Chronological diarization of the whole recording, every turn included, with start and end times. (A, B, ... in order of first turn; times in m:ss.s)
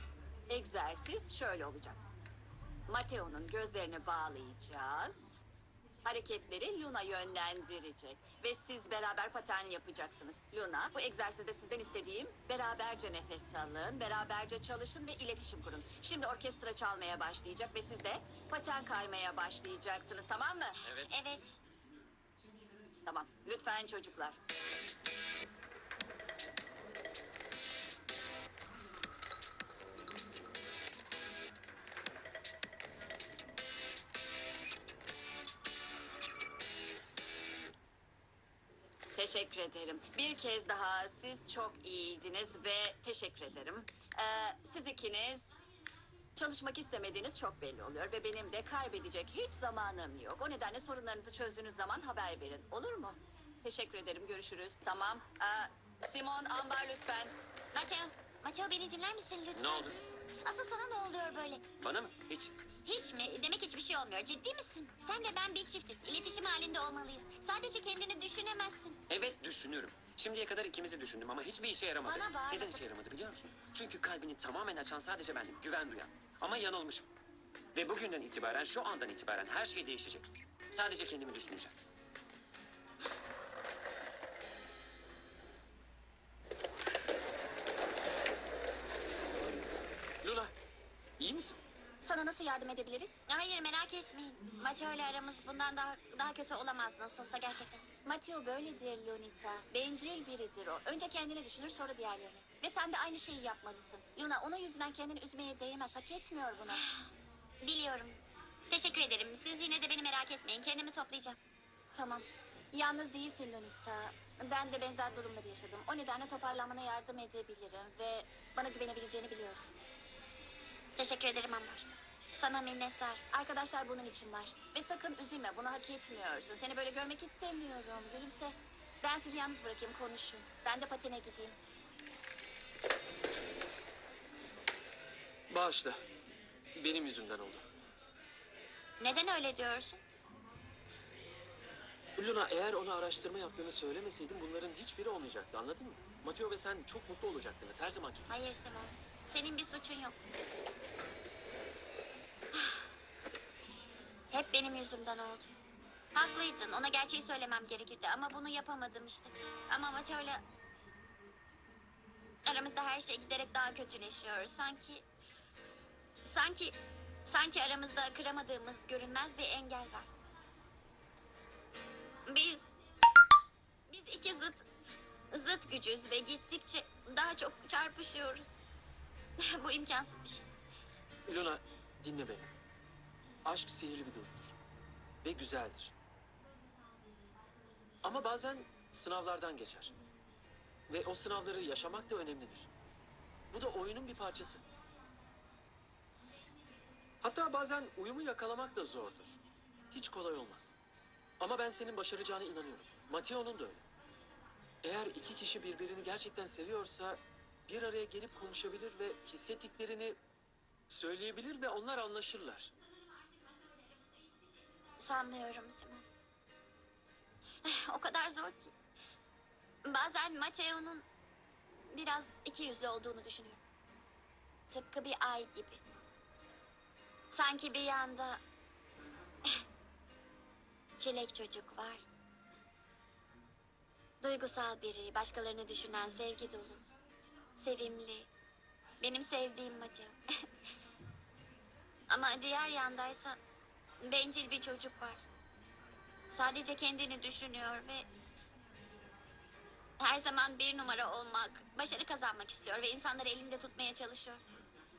0:00.5-0:02.0 A
0:02.9-0:05.4 A
0:06.0-0:20.8 A
0:20.8-0:21.1 B
0:20.9-0:21.5 C
0:23.0-0:24.4 A
0:39.1-0:45.6 A
0:46.3-0:57.3 A
0:57.7-1:01.6 C
0:59.5-1:00.0 B
1:01.8-1:02.5 B
1:02.8-1:09.0 C
1:09.1-1:17.1 B
1:12.0-1:12.8 C
1:17.7-1:21.7 B
1:30.2-1:30.5 D
1:31.2-1:31.6 D
1:32.0-1:33.2 E
1:33.3-1:37.8 C
1:38.0-1:46.8 E
1:46.6-1:47.1 C
1:47.6-1:51.4 C
1:51.9-1:59.7 E
2:01.0-2:03.2 C
2:03.3-2:11.6 E
2:15.5-2:16.0 D
2:16.8-2:17.6 D
2:19.0-2:20.0 C
2:22.2-2:28.3 D
2:28.3-2:30.1 C
2:34.3-2:35.5 C
2:36.1-2:40.4 C
2:42.4-2:45.1 C
2:46.2-2:50.1 C
2:52.2-2:52.7 C
2:53.9-2:54.6 C
2:55.3-2:58.5 C
2:59.4-3:00.5 C
3:01.3-3:02.5 D
3:03.4-3:04.6 D
3:05.2-3:05.9 D
3:08.0-3:09.9 D
3:10.9-3:12.7 D
3:13.5-3:14.6 D
3:17.2-3:19.4 D
3:19.9-3:20.7 D
3:21.4-3:23.8 D
3:24.8-3:30.2 D
3:30.9-3:32.7 D
3:35.0-3:36.0 C
3:37.6-3:38.7 C
3:39.8-3:41.0 C
3:41.9-3:43.6 C
3:44.7-3:45.8 C
3:47.3-3:48.4 C
3:51.0-3:52.0 C
3:54.2-3:56.8 C
3:57.6-3:58.3 C
3:59.0-4:00.2 C
4:02.1-4:03.4 C
4:04.0-4:05.2 C
4:06.3-4:08.1 C
4:10.0-4:14.4 C